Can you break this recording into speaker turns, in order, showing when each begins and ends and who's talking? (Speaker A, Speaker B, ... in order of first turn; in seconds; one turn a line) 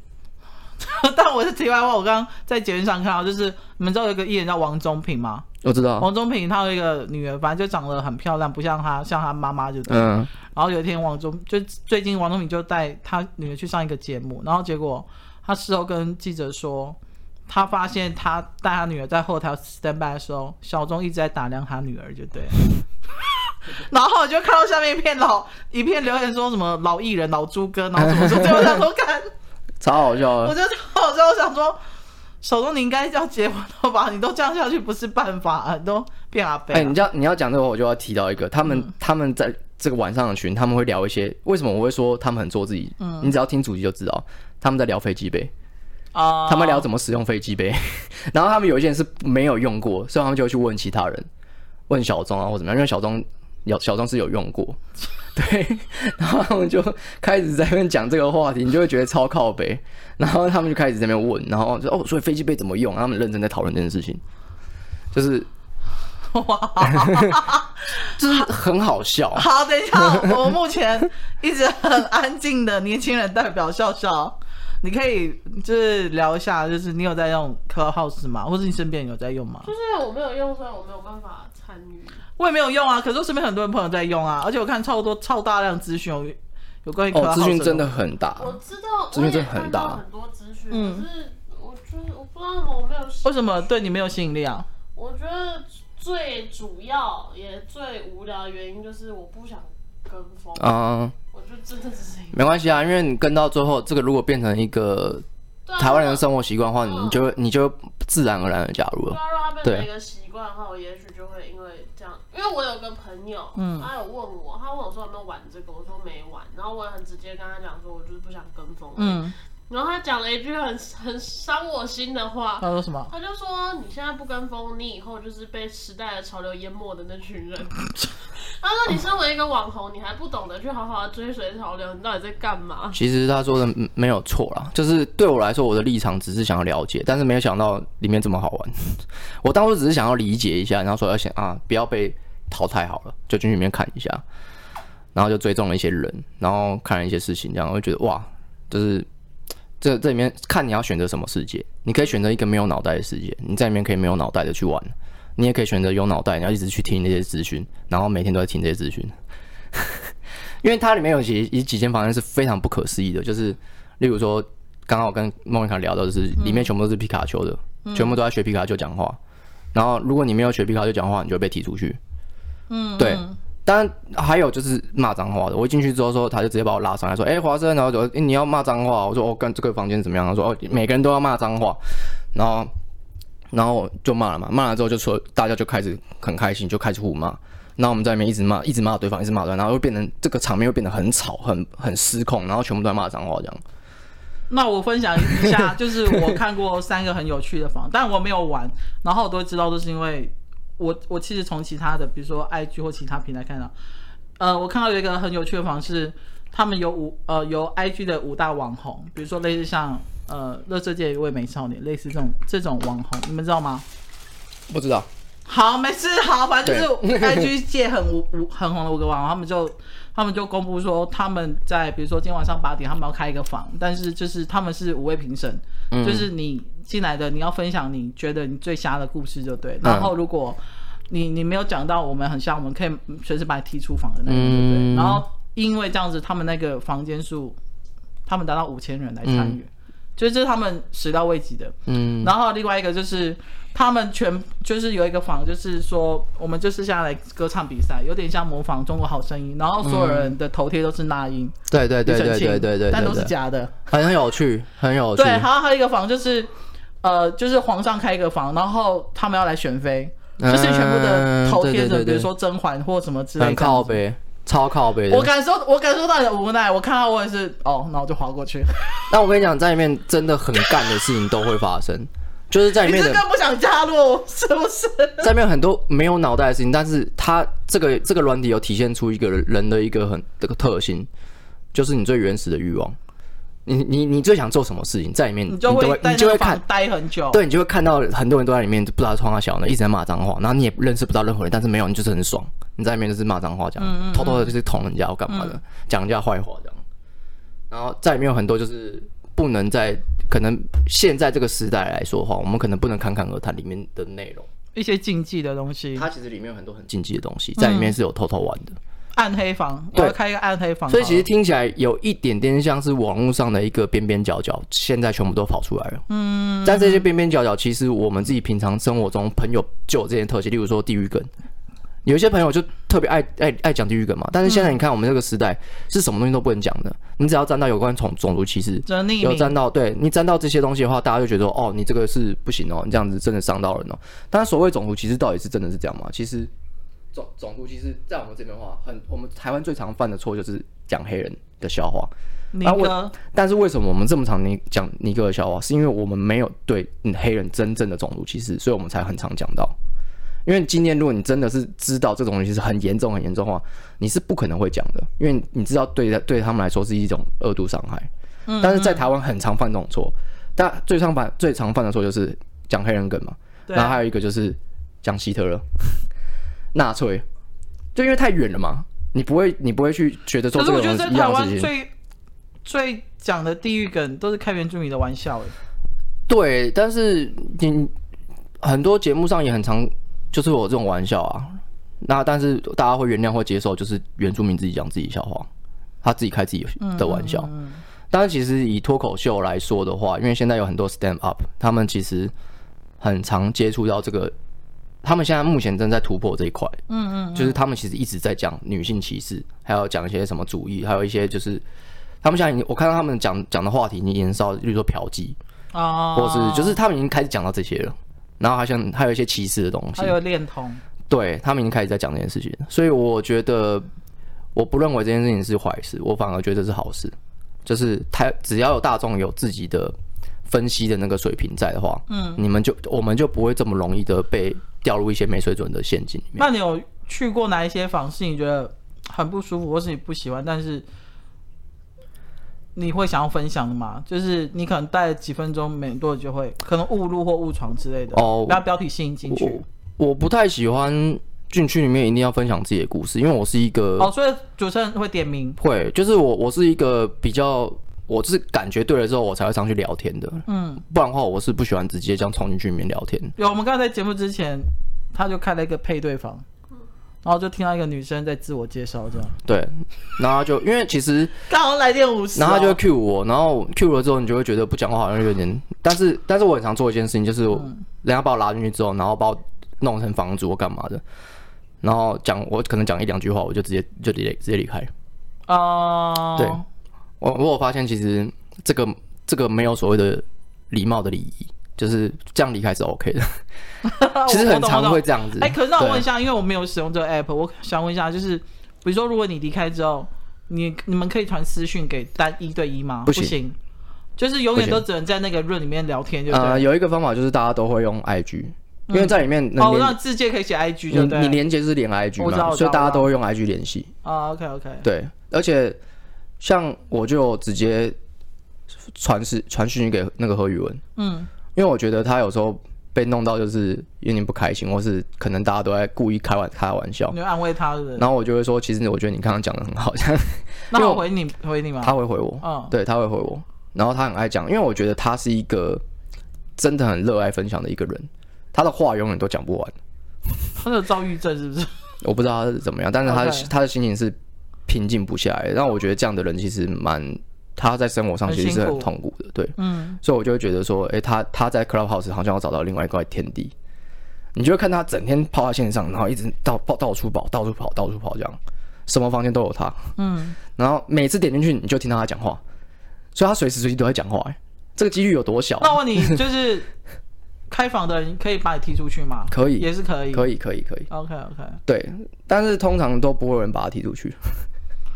Speaker A: 0.8-5.5
Speaker B: 5.6-6.1
Speaker A: 6.0-17.0
Speaker B: 9.9-10.3
Speaker A: 17.5-22.7
Speaker A: 23.7-29.3
Speaker B: 28.0-28.8
Speaker B: 29.8-30.5
Speaker A: 30.4-31.8
Speaker A: 32.4-37.0
Speaker B: 36.7-45.5
Speaker A: 43.0-43.3
Speaker A: 46.1-46.9
Speaker B: 46.5-51.3
Speaker B: 51.9-54.8
Speaker B: 55.3-64.2
Speaker B: 65.1-65.5
Speaker A: 66.3-67.7
Speaker B: 66.8-67.4
Speaker B: 68.2-70.4
Speaker A: 69.3-79.7
Speaker C: 79.6-82.2
Speaker A: 82.4-87.9
Speaker B: 87.1-88.6
Speaker C: 88.4-93.5
Speaker B: 89.1-90.0
Speaker A: 90.7-91.0
Speaker A: 93.2-94.7
Speaker C: 94.9-100.7
Speaker B: 100.6-101.1
Speaker C: 101.3-103.0
Speaker B: 102.3-105.2
Speaker C: 105.7-106.2
Speaker B: 105.8-109.9
Speaker C: 106.8-107.2
Speaker C: 109.1-133.0
Speaker A: 113.6-113.9
Speaker A: 119.0-119.3
Speaker A: 122.6-123.1
Speaker B: 132.9-144.2
Speaker B: 145.1-149.1
Speaker B: 149.8-159.1
Speaker B: 159.7-160.1
Speaker B: 160.6-169.2
Speaker A: 166.4-166.7
Speaker A: 167.8-168.2
Speaker B: 169.7-172.0
Speaker A: 172.7-173.4
Speaker B: 173.0-182.7
Speaker B: 183.5-193.6
Speaker A: 194.5-203.7
Speaker A: 204.4-213.8
Speaker B: 214.7-215.1
Speaker A: 215.4-237.6
Speaker B: 216.6-217.5
Speaker B: 225.9-226.3
Speaker B: 229.8-230.1
Speaker B: 234.3-235.2
Speaker A: 238.2-251.5
Speaker B: 239.2-239.6
Speaker B: 241.9-242.3
Speaker B: 249.8-250.3
Speaker B: 251.7-253.3
Speaker A: 252.1-253.7
Speaker B: 253.9-255.5
Speaker A: 255.1-256.5
Speaker A: 257.0-264.0
Speaker B: 260.4-262.3
Speaker B: 263.4-265.3
Speaker A: 265.1-269.0
Speaker B: 269.1-273.2
Speaker A: 272.8-275.3
Speaker B: 275.2-281.1
Speaker B: 281.7-283.0
Speaker B: 283.6-286.6
Speaker A: 285.5-287.4
Speaker B: 287.3-296.8
Speaker A: 293.8-294.5
Speaker A: 295.3-295.6
Speaker B: 297.7-304.5
Speaker A: 304.7-306.1
Speaker B: 305.9-308.8
Speaker A: 307.6-307.9
Speaker A: 309.1-311.2
Speaker B: 310.9-316.0
Speaker A: 316.1-317.1
Speaker B: 316.6-321.3
Speaker B: 322.0-336.5
Speaker A: 328.9-329.5
Speaker B: 337.1-342.1
Speaker A: 342.5-343.1
Speaker B: 342.6-349.7
Speaker B: 350.4-358.1
Speaker A: 358.5-359.1
Speaker B: 358.6-366.0
Speaker A: 363.7-364.0
Speaker B: 366.7-367.2
Speaker B: 367.9-371.7
Speaker A: 370.5-371.9
Speaker A: 372.6-375.5
Speaker B: 376.3-377.9
Speaker B: 378.6-385.5
Speaker B: 386.0-387.5
Speaker A: 386.8-387.8
Speaker B: 388.1-392.3
Speaker B: 393.0-394.3
Speaker B: 395.0-396.8
Speaker A: 396.9-397.6
Speaker B: 397.3-401.6
Speaker B: 402.2-405.4
Speaker A: 405.7-406.8
Speaker B: 406.1-410.1
Speaker A: 409.9-410.8
Speaker B: 411.1-413.9
Speaker B: 414.5-419.9
Speaker B: 420.5-426.4
Speaker A: 422.1-422.4
Speaker A: 426.4-430.9
Speaker A: 432.7-439.6
Speaker B: 438.1-438.6
Speaker B: 439.3-444.1
Speaker A: 444.0-445.6
Speaker B: 445.6-453.3
Speaker A: 450.5-450.8
Speaker A: 453.4-456.4
Speaker A: 457.2-459.4
Speaker B: 459.4-461.3
Speaker A: 461.5-462.8
Speaker B: 462.3-471.0
Speaker B: 471.8-474.9
Speaker A: 475.5-476.6
Speaker B: 476.4-476.6
Speaker B: 477.2-483.4
Speaker A: 483.8-493.6
Speaker B: 484.3-486.1
Speaker B: 493.1-493.3
Speaker A: 494.2-496.6
Speaker B: 494.5-494.8
Speaker B: 496.3-500.0
Speaker A: 498.9-501.4
Speaker B: 500.9-503.9
Speaker A: 502.2-503.1
Speaker A: 504.0-504.8
Speaker B: 504.8-505.8
Speaker B: 506.4-507.9
Speaker B: 508.9-510.8
Speaker A: 510.9-511.3
Speaker B: 511.5-517.1
Speaker A: 517.1-518.0
Speaker B: 518.0-521.0
Speaker A: 520.7-522.7
Speaker B: 521.8-525.8
Speaker B: 526.6-529.7
Speaker A: 530.6-531.8
Speaker B: 532.0-534.1
Speaker A: 533.0-533.5
Speaker B: 534.7-543.5
Speaker A: 538.2-538.9
Speaker A: 539.6-540.0
Speaker B: 544.3-549.9
Speaker A: 550.0-550.4
Speaker B: 550.5-552.4
Speaker B: 553.1-556.2
Speaker A: 555.6-556.7
Speaker A: 557.5-560.2
Speaker B: 559.3-560.9
Speaker A: 560.9-561.6
Speaker B: 561.7-564.4